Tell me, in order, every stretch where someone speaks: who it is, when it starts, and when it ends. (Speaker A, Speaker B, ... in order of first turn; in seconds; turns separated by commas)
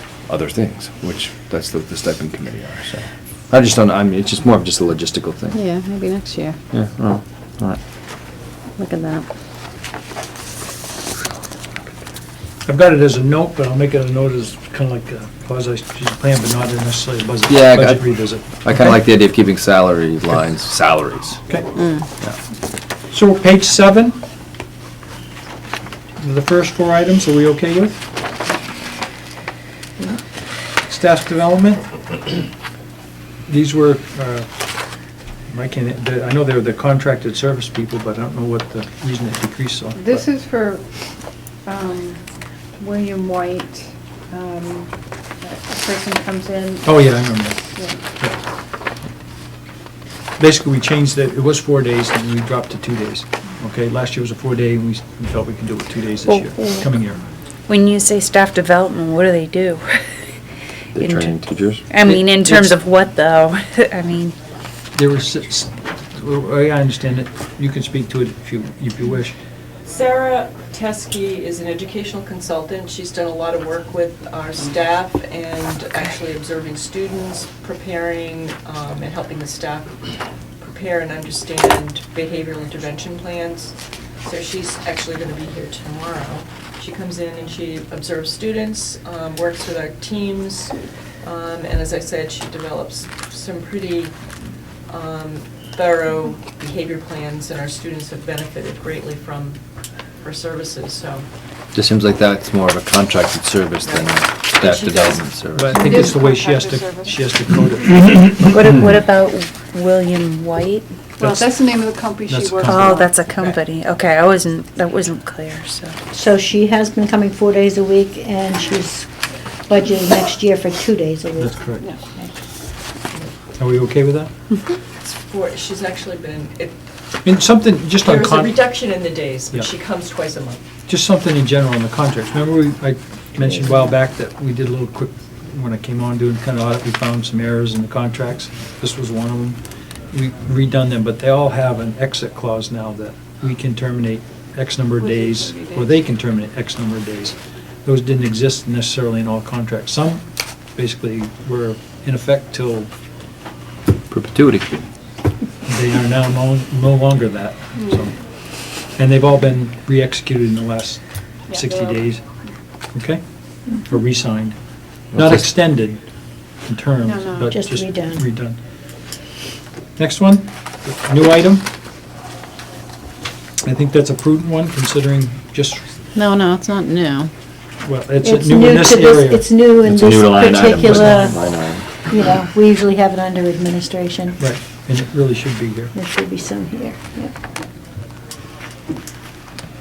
Speaker A: 0.3-5.6, Speaker B: 5.5-6.6, Speaker A: 6.7-7.8, Speaker B: 8.8-9.3, Speaker C: 12.7-19.0, Speaker A: 17.5-21.4, Speaker C: 23.1-24.2, Speaker C: 26.2-28.0, Speaker C: 30.8-32.0, Speaker C: 33.5-34.5, Speaker C: 35.5-40.2, Speaker D: 40.0-40.8, Speaker D: 41.6-42.2, Speaker D: 42.8-46.8, Speaker C: 46.8-48.4, Speaker C: 50.4-57.2, Speaker E: 56.3-56.9, Speaker E: 57.7-60.0, Speaker A: 61.0-61.9, Speaker E: 61.0-61.4, Speaker E: 61.9-64.4, Speaker C: 62.0-62.8, Speaker C: 64.9-69.4, Speaker F: 69.8-80.0, Speaker F: 80.6-94.1, Speaker F: 94.9-99.6, Speaker F: 100.2-101.2, Speaker A: 101.7-105.9, Speaker F: 103.9-105.2, Speaker C: 105.6-108.6, Speaker D: 105.9-107.2, Speaker E: 108.5-110.9, Speaker C: 111.2-111.5, Speaker D: 111.3-113.1, Speaker C: 112.3-112.9, Speaker E: 112.6-116.0, Speaker G: 116.1-119.1, Speaker G: 119.7-121.6, Speaker C: 121.4-121.9, Speaker C: 123.6-124.3, Speaker F: 125.0-126.8, Speaker C: 127.2-128.6, Speaker F: 128.0-130.6, Speaker C: 130.9-139.6, Speaker C: 140.1-150.2, Speaker C: 150.8-152.9, Speaker A: 154.1-154.7, Speaker C: 155.7-158.1, Speaker C: 159.0-162.2, Speaker C: 162.9-164.6, Speaker C: 165.1-166.0, Speaker C: 166.7-168.6, Speaker D: 167.1-167.4, Speaker G: 167.4-168.2, Speaker C: 170.0-171.7, Speaker C: 173.6-175.8, Speaker B: 176.2-177.3, Speaker C: 177.8-179.5, Speaker G: 178.2-184.4, Speaker A: 179.8-181.9, Speaker C: 184.4-185.9, Speaker G: 185.9-187.3